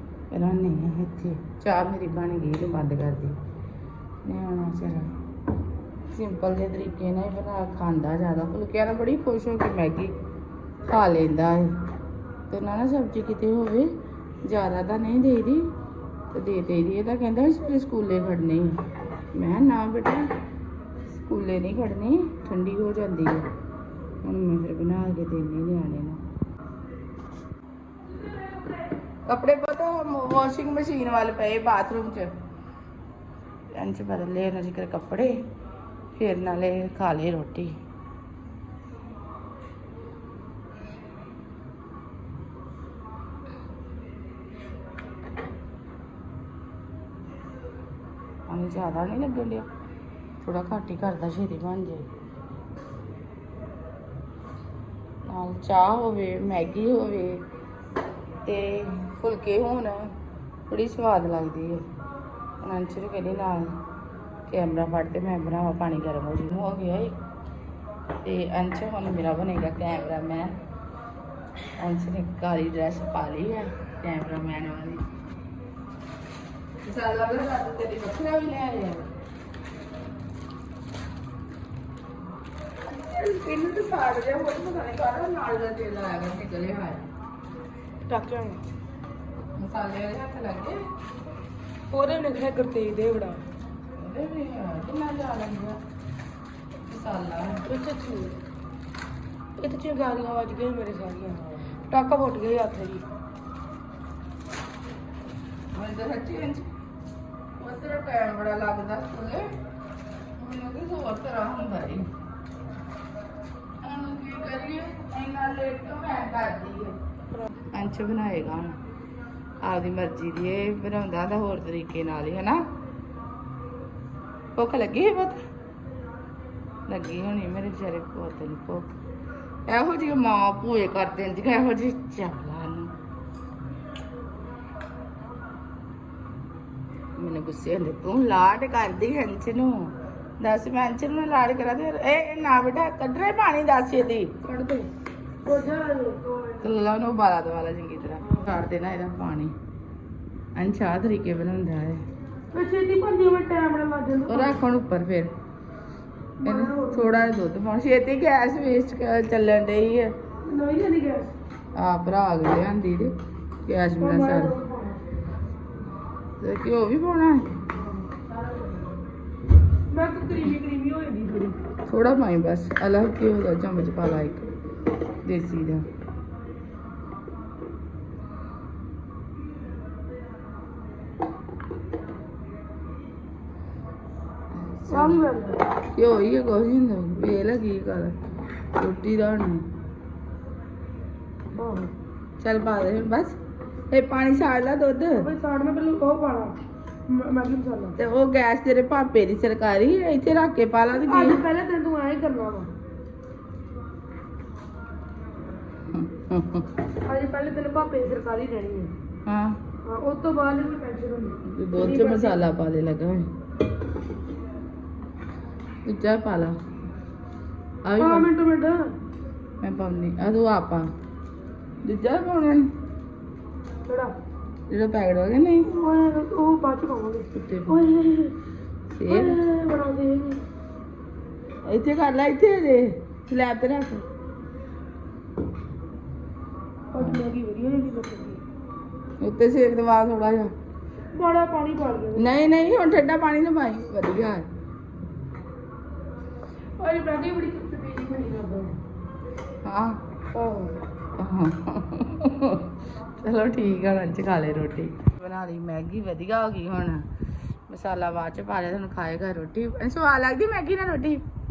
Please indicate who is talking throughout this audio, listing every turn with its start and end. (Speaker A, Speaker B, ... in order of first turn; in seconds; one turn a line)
Speaker A: 0.3-3.4
Speaker A: 4.2-5.1
Speaker A: 6.1-10.1
Speaker A: 10.9-11.7
Speaker A: 12.5-13.9
Speaker A: 14.4-15.7
Speaker A: 16.3-18.8
Speaker A: 19.3-20.2
Speaker A: 21.1-23.4
Speaker A: 24.2-26.2
Speaker B: 28.1-28.7
Speaker A: 29.2-32.3
Speaker A: 33.7-35.3
Speaker A: 36.1-37.7
Speaker A: 48.5-49.7
Speaker A: 50.4-52.1
Speaker A: 55.3-57.4
Speaker A: 58.4-60.1
Speaker A: 60.7-61.8
Speaker A: 62.6-63.8
Speaker A: 64.5-67.1
Speaker A: 68.2-70.5
Speaker A: 71.8-75.1
Speaker A: 76.8-79.1
Speaker A: 82.9-87.0
Speaker B: 88.1-88.6
Speaker A: 89.6-90.8
Speaker B: 91.9-93.4
Speaker A: 93.9-95.8
Speaker A: 96.9-97.6
Speaker B: 97.7-98.4
Speaker B: 99.6-103.0
Speaker A: 105.7-106.6
Speaker A: 107.6-109.5
Speaker A: 110.3-112.0
Speaker A: 113.8-117.0
Speaker A: 117.7-118.8
Speaker A: 119.6-122.6
Speaker A: 124.5-125.4
Speaker A: 126.9-129.0
Speaker A: 129.7-132.9
Speaker A: 137.2-144.9
Speaker B: 145.4-146.7
Speaker A: 146.6-149.5
Speaker A: 150.6-152.0
Speaker B: 152.5-154.6
Speaker A: 154.3-155.3
Speaker B: 156.4-157.3
Speaker A: 156.4-160.1
Speaker B: 160.4-161.3
Speaker A: 161.7-163.1
Speaker A: 163.6-164.5
Speaker B: 164.0-165.0
Speaker A: 166.4-167.4
Speaker B: 167.8-168.9
Speaker B: 169.9-171.6
Speaker A: 171.8-174.5
Speaker A: 175.2-175.8
Speaker A: 184.6-185.2
Speaker B: 184.9-185.7
Speaker A: 185.9-188.2
Speaker A: 188.7-189.6
Speaker B: 191.5-191.9
Speaker A: 192.4-193.3
Speaker A: 193.9-195.2
Speaker B: 195.2-198.0
Speaker A: 198.0-201.4
Speaker B: 200.9-202.7
Speaker A: 205.9-206.7
Speaker B: 207.1-208.9
Speaker A: 209.2-209.6
Speaker B: 209.8-212.4
Speaker A: 211.5-213.3
Speaker A: 215.8-216.5
Speaker A: 217.8-218.3
Speaker B: 218.0-218.8
Speaker A: 219.6-220.8
Speaker A: 221.8-222.7
Speaker B: 223.8-224.1
Speaker A: 224.7-225.7
Speaker B: 225.7-228.4
Speaker A: 227.3-227.9
Speaker A: 228.9-229.4
Speaker B: 229.1-230.4
Speaker A: 231.6-234.0
Speaker B: 236.9-238.4
Speaker A: 237.0-237.2
Speaker A: 239.2-240.5
Speaker B: 241.2-243.0
Speaker A: 242.2-244.4
Speaker B: 246.8-248.8
Speaker A: 249.6-250.0
Speaker B: 250.3-250.8
Speaker A: 251.2-257.0
Speaker A: 257.7-261.2